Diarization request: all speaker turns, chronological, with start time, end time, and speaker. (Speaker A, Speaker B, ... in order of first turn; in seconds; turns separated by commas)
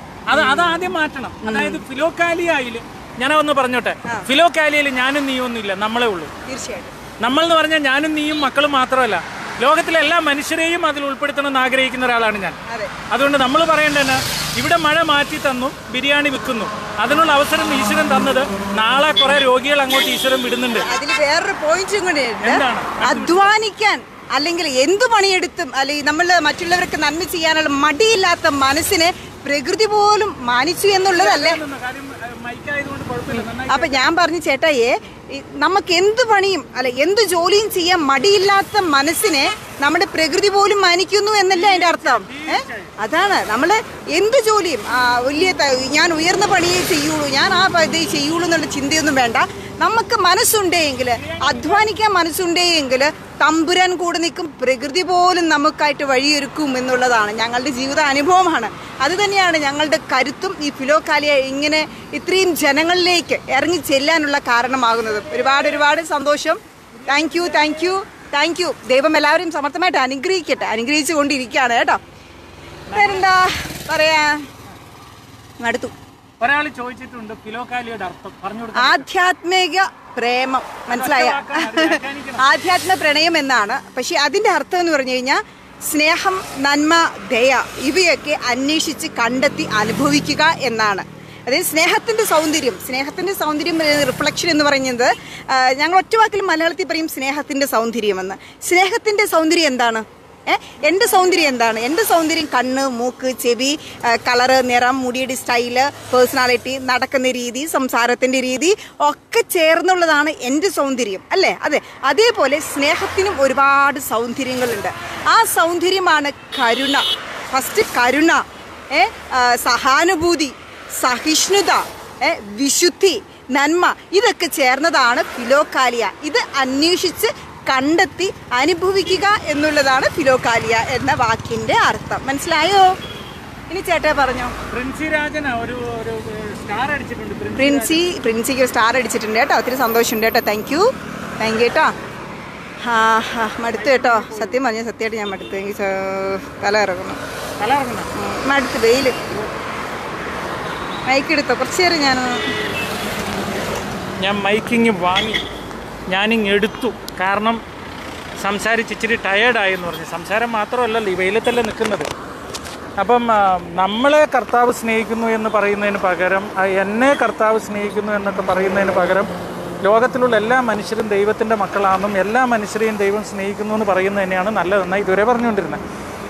Speaker A: 0.3-6.3, Speaker B: 1.4-1.8, Speaker B: 6.5-6.9, Speaker A: 7.2-12.6, Speaker A: 13.1-20.9, Speaker B: 20.8-31.6, Speaker A: 22.4-23.5, Speaker A: 31.1-34.0, Speaker B: 33.3-72.0, Speaker A: 41.5-42.9, Speaker A: 51.2-51.8, Speaker A: 67.0-67.8, Speaker A: 72.9-73.2, Speaker B: 72.9-74.4, Speaker B: 75.6-75.9, Speaker A: 76.4-79.0, Speaker B: 78.8-132.9, Speaker A: 80.9-82.4, Speaker B: 133.7-134.5, Speaker A: 134.7-138.0, Speaker B: 137.6-140.9, Speaker B: 141.4-141.9, Speaker B: 142.8-147.2, Speaker A: 143.7-144.6, Speaker A: 147.6-148.1, Speaker B: 148.1-149.2, Speaker B: 151.1-152.4, Speaker A: 154.2-155.4, Speaker A: 156.1-157.6, Speaker A: 158.4-162.1, Speaker A: 163.0-169.3, Speaker A: 169.8-175.8